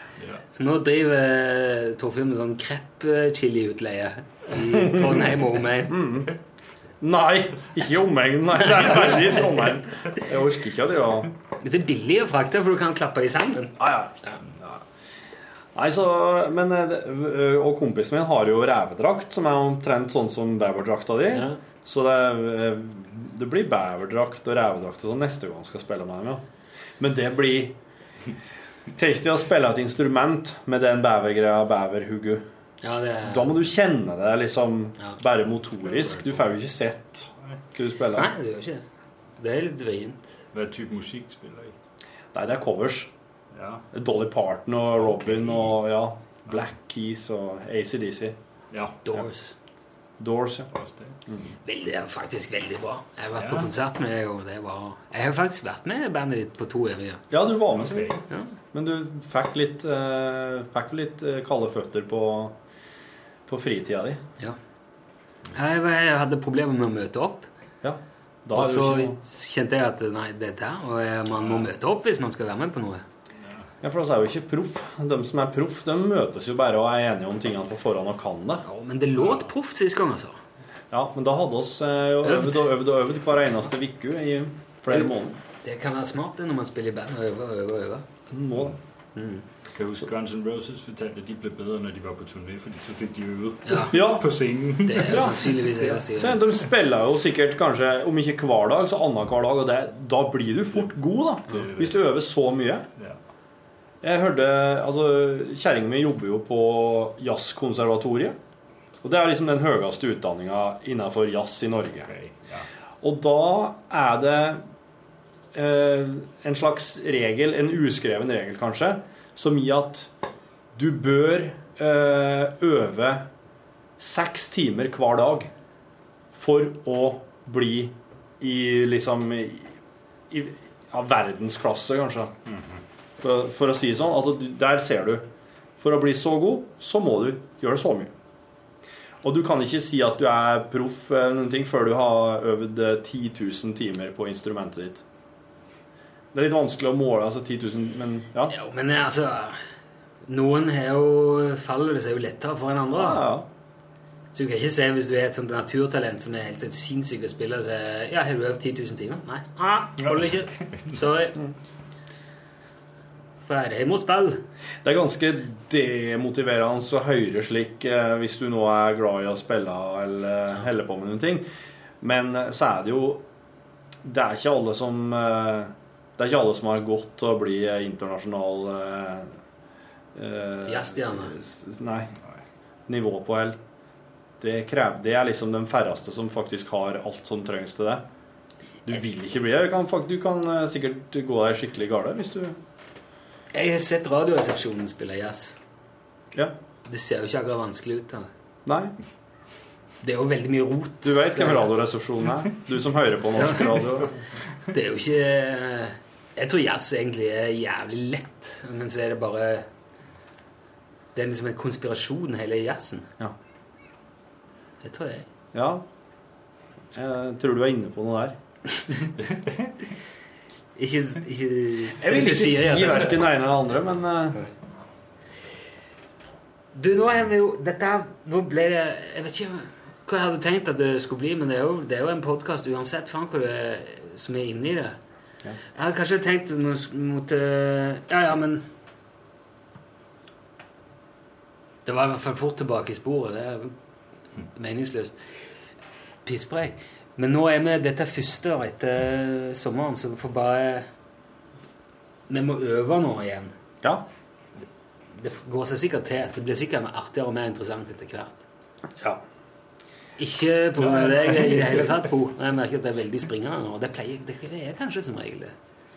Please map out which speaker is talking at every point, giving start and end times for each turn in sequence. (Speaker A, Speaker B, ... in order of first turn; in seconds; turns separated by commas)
Speaker A: 0.5-6.0, Speaker B: 4.7-5.2, Speaker B: 5.9-6.3, Speaker B: 7.0-11.3, Speaker A: 11.6-14.4, Speaker B: 13.8-14.8, Speaker B: 15.8-26.4, Speaker A: 21.3-21.6, Speaker B: 27.0-27.8, Speaker B: 28.9-32.5, Speaker A: 32.8-33.5, Speaker B: 33.2-38.3, Speaker C: 35.7-36.5, Speaker A: 38.1-38.8, Speaker A: 39.4-40.4, Speaker C: 40.5-41.7, Speaker B: 42.3-43.1, Speaker C: 43.5-43.9, Speaker B: 43.9-48.4, Speaker C: 45.1-45.7, Speaker C: 48.7-49.0, Speaker A: 49.1-49.5, Speaker B: 50.2-50.7, Speaker C: 50.7-51.2, Speaker B: 51.3-51.5, Speaker A: 51.6-57.2, Speaker C: 53.4-53.7, Speaker B: 57.3-58.1, Speaker C: 57.8-58.2, Speaker B: 58.7-62.5, Speaker B: 63.5-64.2, Speaker A: 65.5-67.5, Speaker B: 67.8-69.2, Speaker A: 68.5-73.0, Speaker C: 71.4-71.7, Speaker C: 73.4-73.7, Speaker B: 73.8-78.7, Speaker A: 78.7-80.4, Speaker B: 80.9-85.4, Speaker A: 82.2-82.6, Speaker A: 84.9-88.0, Speaker B: 88.3-88.8, Speaker A: 89.2-89.4, Speaker C: 89.7-95.4, Speaker A: 93.7-94.0, Speaker B: 93.9-94.3, Speaker A: 94.9-96.5, Speaker B: 95.0-102.9, Speaker C: 101.5-102.0, Speaker B: 104.0-108.4, Speaker B: 109.0-112.1, Speaker C: 112.1-112.7, Speaker B: 113.0-114.6, Speaker B: 115.5-120.1, Speaker B: 120.8-123.3, Speaker B: 124.0-125.5, Speaker B: 126.3-129.7, Speaker B: 130.3-132.3, Speaker C: 132.5-132.8, Speaker B: 133.2-135.3, Speaker B: 135.8-138.1, Speaker B: 139.2-145.0, Speaker B: 146.3-148.5, Speaker A: 148.5-149.6, Speaker A: 150.3-153.3, Speaker B: 153.0-153.5, Speaker A: 154.3-161.4, Speaker C: 160.0-161.0, Speaker A: 163.4-164.4, Speaker B: 164.8-171.4, Speaker B: 172.0-173.2, Speaker B: 174.0-179.3, Speaker B: 180.2-182.1, Speaker A: 180.7-181.4, Speaker B: 182.9-183.6, Speaker B: 184.4-188.0, Speaker B: 188.8-192.6, Speaker A: 193.5-195.6, Speaker A: 196.8-198.3, Speaker B: 198.7-198.9, Speaker A: 200.0-201.8, Speaker B: 201.0-204.2, Speaker A: 203.3-203.9, Speaker A: 204.7-209.7, Speaker A: 211.2-213.1, Speaker A: 214.8-215.3, Speaker B: 215.5-215.8, Speaker B: 216.9-218.4, Speaker C: 219.2-219.7, Speaker A: 220.8-223.3, Speaker B: 221.9-224.4, Speaker A: 226.8-235.0, Speaker A: 235.8-238.7, Speaker A: 241.9-243.7, Speaker A: 244.5-245.2, Speaker A: 246.2-250.9, Speaker A: 252.3-253.5, Speaker A: 255.1-258.4, Speaker A: 260.2-265.5, Speaker C: 260.8-262.0